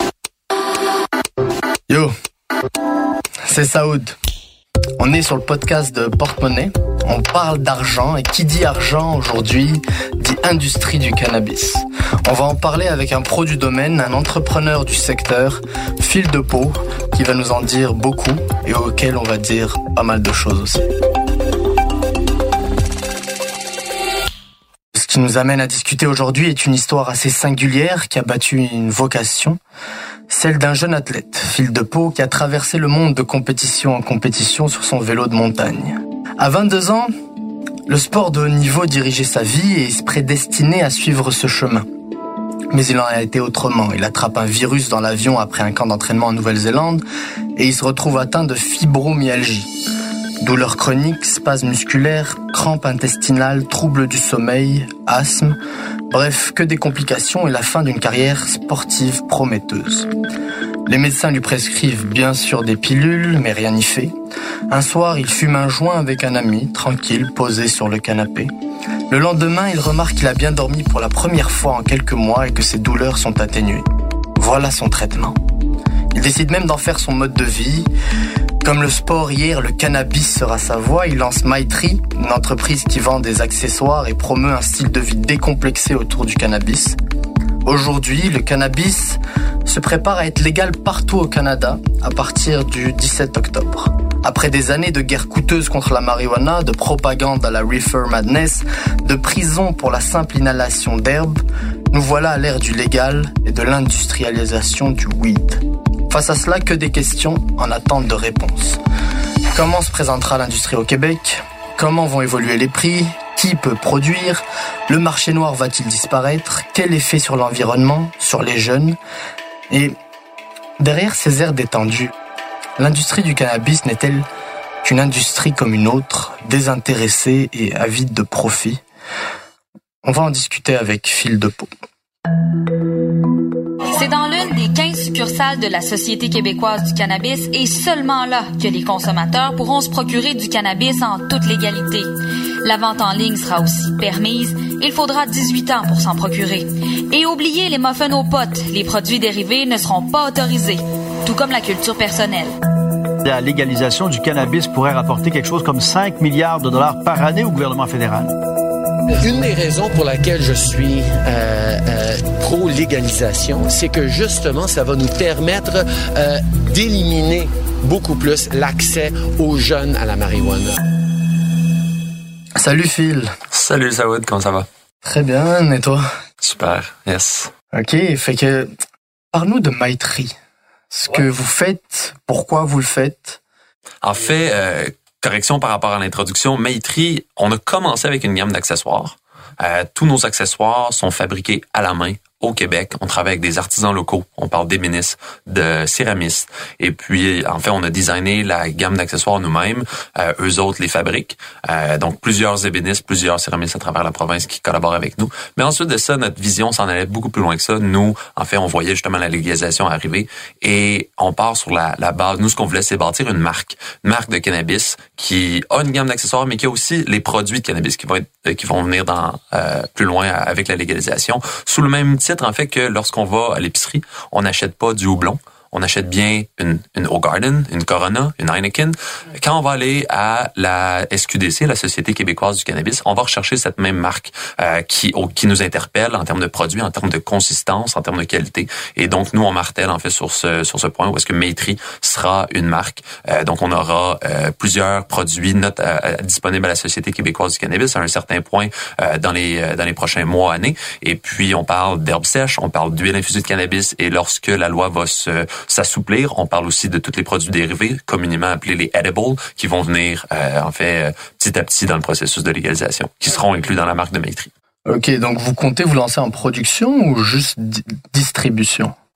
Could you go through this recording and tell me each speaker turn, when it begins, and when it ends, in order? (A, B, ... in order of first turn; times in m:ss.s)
0:03.4-0:04.2 A
0:05.0-0:20.9 A
0:24.9-0:29.6 A
0:30.3-0:37.1 A
0:37.9-0:41.8 A
0:42.7-0:47.0 A
0:47.6-0:49.7 A
0:50.4-0:55.6 A
0:56.1-1:00.1 A
1:00.9-1:04.1 A
1:04.7-1:08.5 A
1:09.1-1:13.8 A
1:14.4-1:15.4 A
1:16.1-1:17.9 A
1:18.6-1:27.0 A
1:27.6-1:41.4 A
1:41.9-1:48.8 A
1:49.5-1:59.0 A
1:59.7-1:59.9 A
2:00.8-2:02.1 A
2:02.8-2:04.2 A
2:04.8-2:08.8 A
2:10.0-2:11.7 A
2:13.9-2:22.1 B
2:22.6-2:32.5 B
2:33.2-2:38.3 C
2:39.2-2:50.8 D
2:52.6-2:53.3 A
2:53.5-2:54.7 E
2:55.0-2:56.0 A
2:56.4-2:57.5 E
2:57.7-2:58.7 A
2:59.3-3:00.3 A
3:00.9-3:03.4 A
3:04.0-4:24.5 E
4:24.8-4:28.9 A